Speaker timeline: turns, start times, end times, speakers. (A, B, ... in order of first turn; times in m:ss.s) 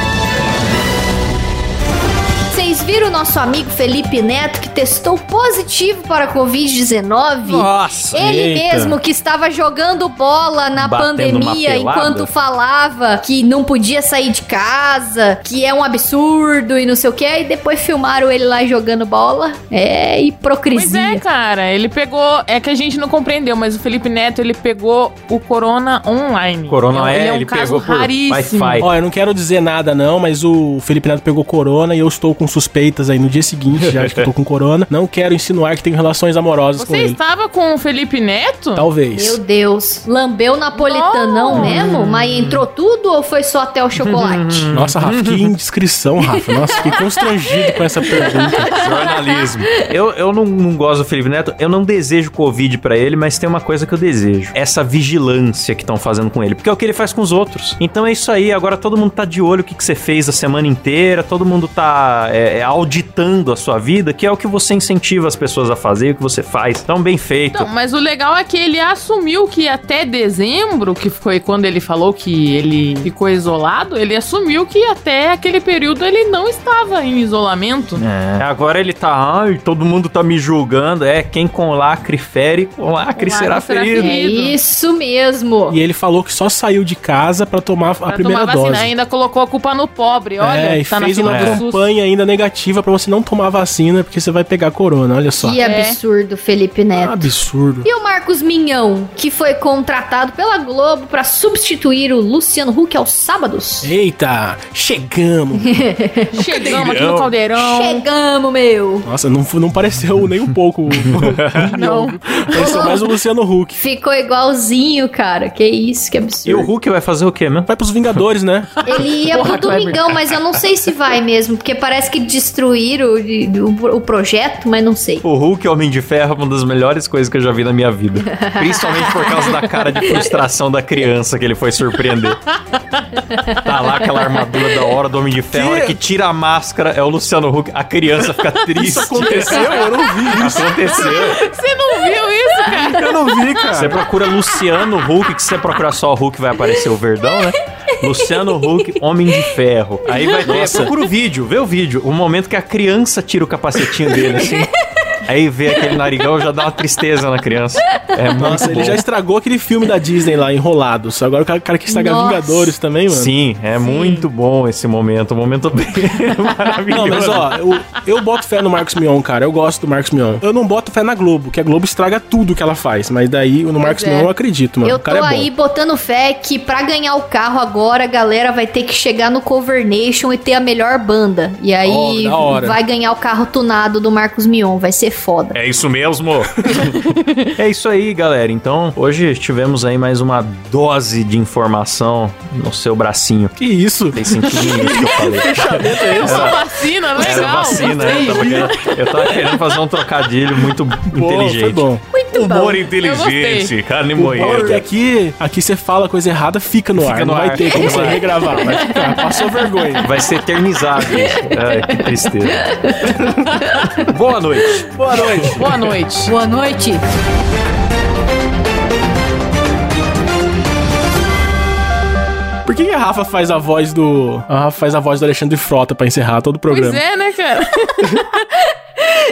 0:02.5-0:21.2 A
0:07.4-0:08.2 B
0:08.1-0:09.0 C
0:10.8-0:12.3 B
0:20.7-0:28.9 D
0:26.7-0:28.9 B
0:28.8-0:37.2 C
0:33.8-0:34.3 B
0:36.8-0:38.9 D
0:38.8-0:39.4 C
0:39.1-0:44.7 A
0:40.7-0:41.8 D
0:41.5-0:42.6 B
0:44.0-0:45.5 B
0:44.7-0:48.7 C
0:48.4-1:07.7 B
1:07.5-1:18.0 D
1:18.0-1:24.1 B
1:23.1-1:24.6 D
1:23.9-1:25.8 A
1:25.7-1:28.9 C
1:28.0-1:31.8 D
1:30.4-1:35.6 C
1:31.2-1:31.6 B
1:35.4-1:37.3 A
1:35.6-1:36.0 D
1:36.9-1:37.9 C
1:37.8-1:43.9 A
1:43.8-1:45.8 C
1:45.6-1:46.8 A
1:46.3-1:48.1 D
1:46.8-1:47.3 B
1:47.6-1:49.1 A
1:49.0-1:53.8 C
1:51.0-1:51.7 B
1:51.7-1:52.2 D
1:52.6-1:53.1 A
1:53.7-1:56.7 A
1:56.4-1:58.2 B
1:57.7-1:58.8 C
1:58.8-2:05.2 A
1:58.8-2:00.6 B
2:05.2-2:12.4 B
2:08.3-2:10.3 A
2:13.6-2:21.4 B
2:15.5-2:16.0 C
2:18.8-2:20.7 C
2:19.3-2:19.7 D
2:20.4-2:23.1 D
2:22.8-2:34.7 B
2:22.9-2:24.0 C
2:30.4-2:30.9 C
2:34.1-2:34.5 A
2:35.2-2:39.0 B
2:38.4-2:43.3 C
2:41.9-2:42.7 A
2:43.1-2:47.5 B
2:43.8-2:44.2 D
2:46.9-2:55.5 C
2:53.8-2:54.3 D
2:54.8-3:05.6 A
3:01.8-3:02.8 C
3:05.5-3:13.6 B
3:13.6-3:16.6 C
3:14.1-3:16.6 B
3:16.2-3:18.4 D
3:17.2-3:24.8 B
3:17.2-3:19.2 C
3:21.1-3:22.0 C
3:22.1-3:22.8 A
3:23.0-3:23.7 D
3:24.2-3:30.1 C
3:27.0-3:28.2 B
3:27.8-3:30.0 A
3:30.0-3:32.6 B
3:31.0-3:32.0 A
3:32.5-3:33.2 A
3:33.7-3:34.0 A
3:34.1-3:34.9 B
3:34.9-3:35.8 C
3:35.6-3:36.3 D
3:36.3-3:37.0 A
3:42.6-3:47.0 C
3:46.7-3:48.1 D